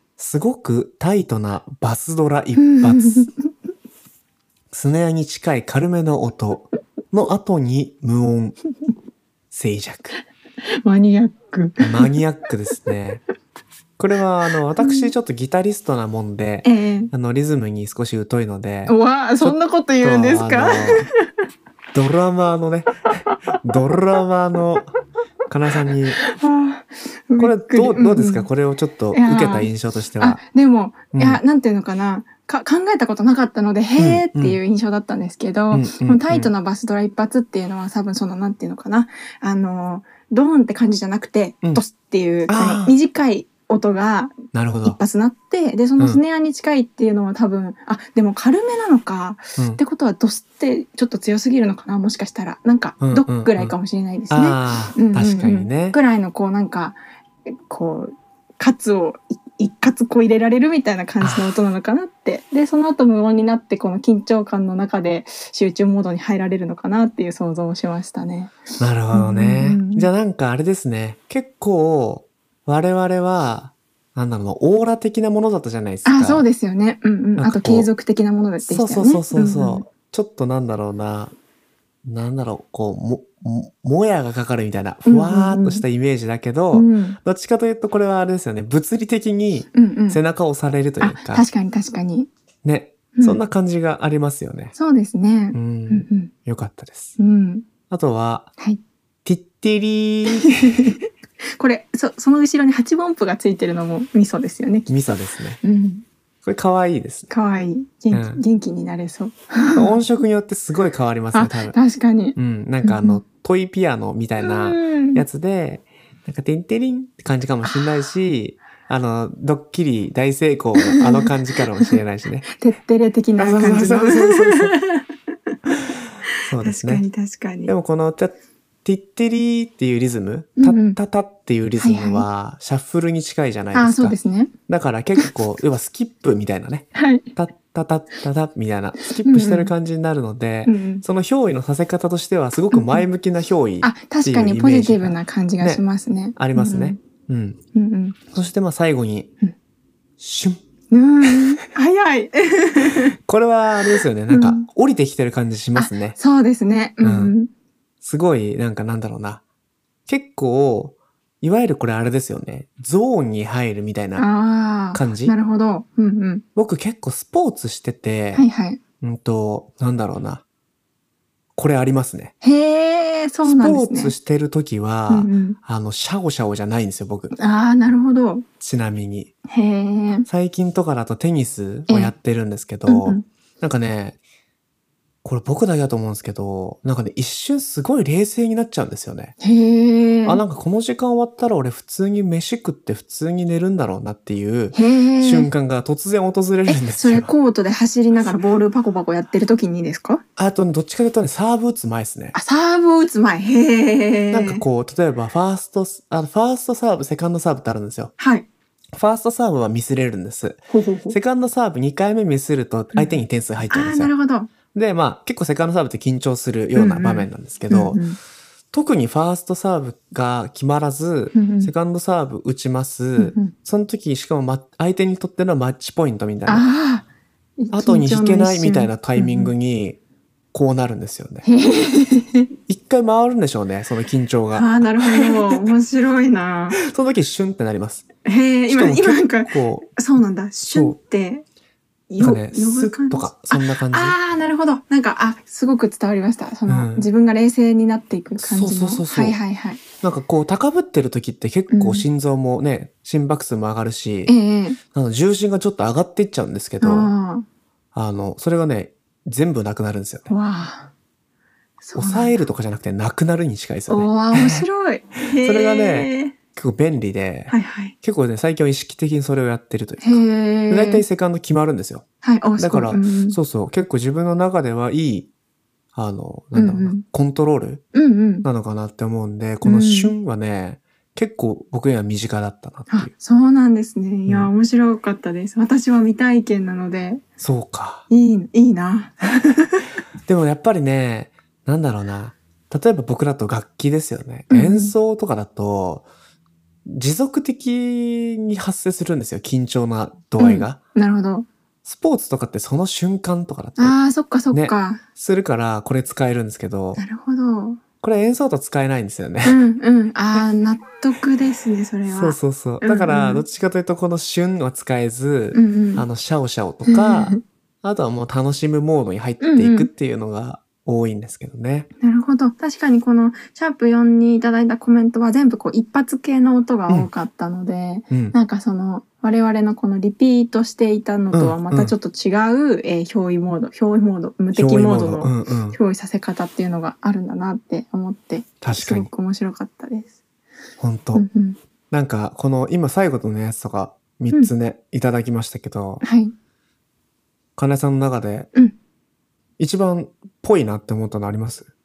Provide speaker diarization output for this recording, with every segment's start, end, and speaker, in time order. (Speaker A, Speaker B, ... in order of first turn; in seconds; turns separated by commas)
Speaker A: 0.2-3.3, Speaker B: 2.5-3.5, Speaker A: 4.7-8.6, Speaker A: 9.5-10.2, Speaker B: 10.8-12.2, Speaker A: 11.8-13.2, Speaker A: 14.0-21.1, Speaker B: 14.8-15.1, Speaker B: 16.6-17.1, Speaker B: 18.9-21.3, Speaker A: 21.9-24.9, Speaker A: 25.5-26.2, Speaker B: 26.2-28.5, Speaker A: 27.4-30.4, Speaker B: 29.1-44.3, Speaker A: 31.1-31.4, Speaker A: 34.0-34.6, Speaker A: 35.7-36.5, Speaker A: 42.5-42.9, Speaker A: 44.5-45.0, Speaker B: 44.8-68.6, Speaker A: 53.0-53.7, Speaker A: 54.3-56.0, Speaker A: 61.2-61.5, Speaker A: 68.8-76.5, Speaker B: 69.1-70.1, Speaker B: 76.0-79.8, Speaker A: 77.4-77.9, Speaker A: 78.6-81.3, Speaker A: 82.0-91.4, Speaker B: 85.0-85.8, Speaker B: 86.7-87.2, Speaker B: 89.7-90.2, Speaker B: 91.0-92.3, Speaker A: 92.6-94.7, Speaker B: 93.1-93.4, Speaker B: 94.8-96.3, Speaker A: 95.5-97.2, Speaker B: 97.2-97.7, Speaker A: 97.9-98.5, Speaker A: 99.2-101.0, Speaker B: 100.3-100.9, Speaker B: 101.6-105.1, Speaker A: 104.9-105.6, Speaker B: 105.6-106.0, Speaker A: 106.4-107.3, Speaker B: 107.3-110.0, Speaker A: 108.1-108.4, Speaker A: 109.7-111.8, Speaker B: 111.3-113.2, Speaker A: 112.3-122.5, Speaker B: 114.4-115.2, Speaker B: 120.8-121.3, Speaker B: 122.5-125.1, Speaker A: 123.4-124.7, Speaker A: 126.4-127.0, Speaker B: 126.6-127.7, Speaker A: 127.7-134.2, Speaker B: 130.6-131.0, Speaker B: 131.8-132.2, Speaker B: 133.7-134.5, Speaker A: 134.7-145.8, Speaker B: 136.9-137.3, Speaker B: 139.2-139.7, Speaker B: 140.6-141.0, Speaker B: 142.7-143.0, Speaker B: 143.8-147.0, Speaker A: 146.3-147.6, Speaker B: 147.7-148.2, Speaker A: 148.3-149.3, Speaker A: 150.2-150.6, Speaker B: 150.9-153.2, Speaker A: 153.2-156.2, Speaker B: 154.3-154.7, Speaker B: 155.8-157.5, Speaker A: 157.0-157.3, Speaker A: 158.0-159.4, Speaker A: 160.1-164.2, Speaker B: 164.2-166.4, Speaker A: 164.9-165.3, Speaker A: 166.5-168.4, Speaker B: 168.3-168.8, Speaker A: 169.0-170.4, Speaker A: 171.6-172.3, Speaker B: 172.4-174.1, Speaker A: 173.4-177.3, Speaker B: 175.1-175.6, Speaker B: 177.3-178.4, Speaker A: 178.6-179.3, Speaker B: 179.5-180.3, Speaker A: 180.3-184.2, Speaker B: 181.9-182.1, Speaker B: 182.9-183.2, Speaker A: 185.2-189.3, Speaker B: 189.4-190.4, Speaker A: 190.2-197.3, Speaker B: 194.7-195.5, Speaker B: 196.7-200.2, Speaker A: 200.4-202.3, Speaker B: 202.3-204.6, Speaker A: 204.3-208.1, Speaker B: 208.2-208.5, Speaker A: 208.9-214.1, Speaker B: 210.7-211.2, Speaker B: 213.7-214.5, Speaker A: 214.7-218.0, Speaker B: 216.7-218.2, Speaker A: 218.7-226.6, Speaker B: 221.3-221.7, Speaker B: 223.2-223.5, Speaker B: 226.4-227.1, Speaker B: 227.6-229.5, Speaker A: 227.7-230.0, Speaker A: 230.5-231.4, Speaker B: 231.4-232.5, Speaker A: 232.7-235.3, Speaker B: 234.5-236.8, Speaker A: 236.8-238.0, Speaker B: 238.2-241.4, Speaker A: 238.7-239.9, Speaker B: 242.1-249.8, Speaker A: 242.2-244.2, Speaker A: 246.7-247.1, Speaker A: 248.4-249.4, Speaker A: 250.0-254.3, Speaker B: 251.7-252.1, Speaker B: 254.2-254.8, Speaker A: 254.9-257.1, Speaker B: 256.8-257.4, Speaker A: 257.9-260.3, Speaker B: 260.3-260.9, Speaker B: 261.8-262.3, Speaker A: 261.9-264.6, Speaker B: 263.9-266.4, Speaker A: 265.4-272.0, Speaker B: 267.5-267.9, Speaker B: 270.0-271.0, Speaker B: 272.2-273.4, Speaker A: 272.6-275.3, Speaker A: 275.9-277.8, Speaker B: 276.5-277.0, Speaker B: 277.9-278.5, Speaker A: 278.4-283.1, Speaker B: 279.6-280.1, Speaker B: 282.9-287.2, Speaker A: 287.4-288.0, Speaker B: 288.1-289.8, Speaker A: 290.3-296.1, Speaker B: 294.5-294.9, Speaker A: 296.9-300.8, Speaker B: 300.4-301.4, Speaker A: 301.8-303.9, Speaker B: 303.8-305.0, Speaker A: 304.5-307.0, Speaker B: 307.0-307.8, Speaker A: 308.0-309.6, Speaker B: 309.4-313.4, Speaker A: 312.1-321.9, Speaker B: 315.5-316.1, Speaker B: 316.9-317.4, Speaker B: 319.4-319.9, Speaker B: 322.0-340.1, Speaker A: 328.1-328.3, Speaker A: 331.3-331.9, Speaker A: 334.5-335.8, Speaker A: 338.6-339.1, Speaker A: 340.8-341.2, Speaker B: 341.1-341.6, Speaker A: 341.9-346.0, Speaker B: 346.0-346.3, Speaker A: 347.6-348.5, Speaker A: 349.6-351.7